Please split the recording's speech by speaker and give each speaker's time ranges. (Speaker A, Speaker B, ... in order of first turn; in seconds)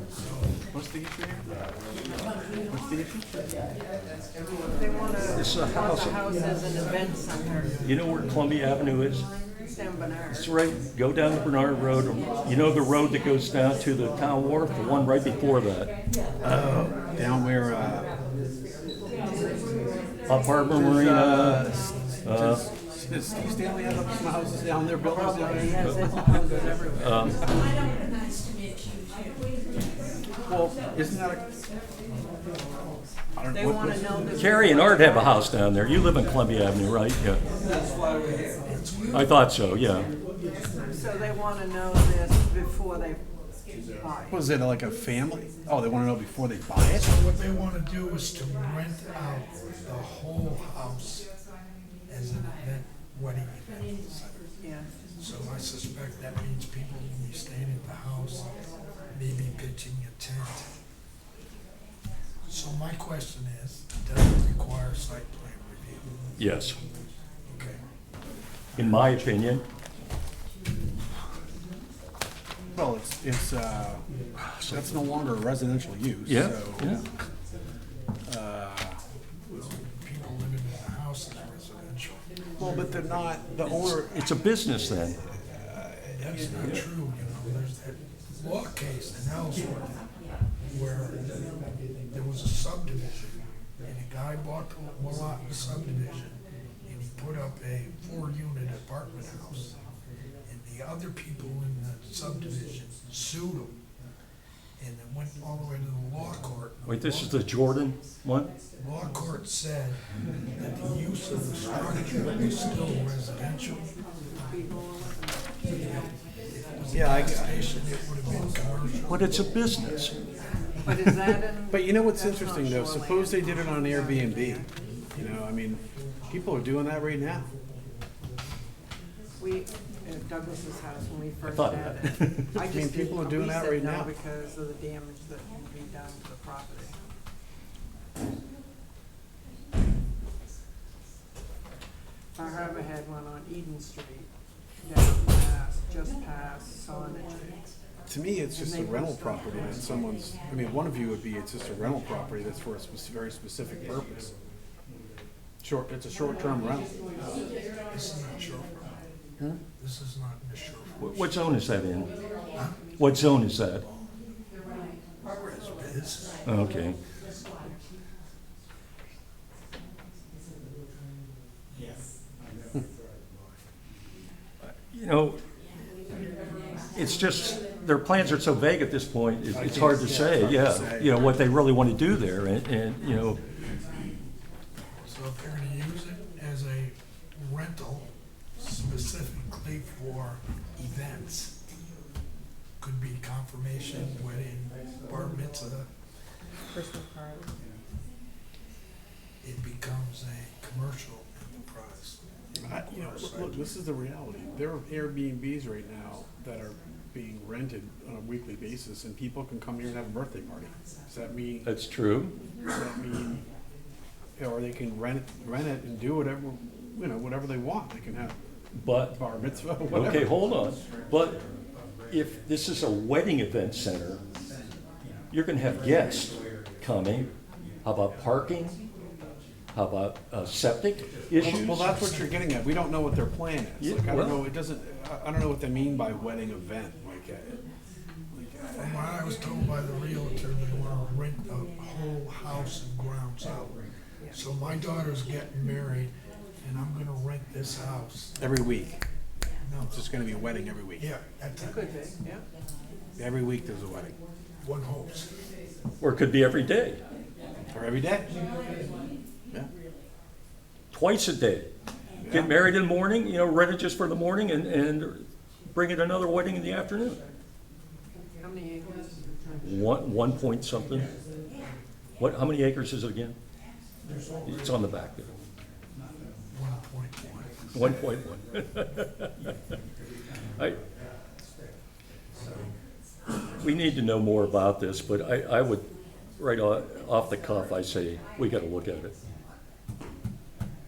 Speaker A: 0.7-1.4, 2.7-3.3, 16.4-18.1, 20.7-26.0, 30.5-31.5, 33.4-34.2, 44.3-47.1, 72.7-74.0, 74.6-77.0, 78.3-79.0, 82.6-86.8, 116.9-117.7, 120.9-127.5, 132.2-134.1, 148.1-154.3, 155.6-156.9, 179.5-181.3, 202.6-211.7, 212.7-213.4, 214.4-218.3, 219.1-220.6, 231.3-237.6, 238.3-239.1, 248.4-249.0, 249.9-251.1, 253.2-254.1, 257.7-258.3, 262.2-262.5
Speaker B: 4.7-7.8, 9.7-10.5, 25.0-27.6, 32.7-35.3, 40.9-43.2, 43.9-44.4, 54.6-54.9, 114.4-116.0, 120.8-124.7, 129.4-136.9, 142.3-144.3, 144.8-147.6, 148.5-150.1, 196.7-197.5, 251.6-252.4, 268.1-269.9
Speaker C: 5.3-6.2, 7.8-9.3, 10.3-15.9, 20.3-21.7, 22.2-22.6, 26.9-27.4, 34.3-37.4, 39.1-40.1, 66.4-66.8, 68.8-69.6, 74.4-74.9, 76.2-77.0, 83.7-85.2, 106.8-108.5, 119.1-120.1, 131.4-132.1, 161.0-162.1, 163.0-163.8, 166.4-167.0, 174.7-175.4, 176.9-183.4, 211.6-212.3, 218.7-219.2, 219.9-221.4, 222.1-224.2, 225.3-227.3, 227.8-228.8, 229.7-232.2, 233.8-234.5, 256.0-257.0, 260.9-261.7, 262.3-267.2, 269.6-271.1, 272.2-273.4, 274.4-275.3, 277.7-279.5, 283.6-289.1
Speaker D: 38.2-39.3, 46.9-51.3, 52.1-54.4, 55.2-58.5, 59.1-60.7, 62.5-66.1, 67.5-67.8, 68.7-69.6, 79.5-82.2, 86.1-89.9, 90.7-91.3, 92.1-99.8, 100.5-103.7, 104.8-107.3, 108.8-110.0, 110.5-113.8, 116.5-119.4, 157.9-159.0, 159.8-161.1, 162.5-162.9, 165.3-166.4, 185.1-191.5, 192.8-195.9, 199.4-203.7, 238.8-243.8, 244.3-248.4, 249.6-250.1, 251.0-251.8, 254.6-255.3, 276.5-277.9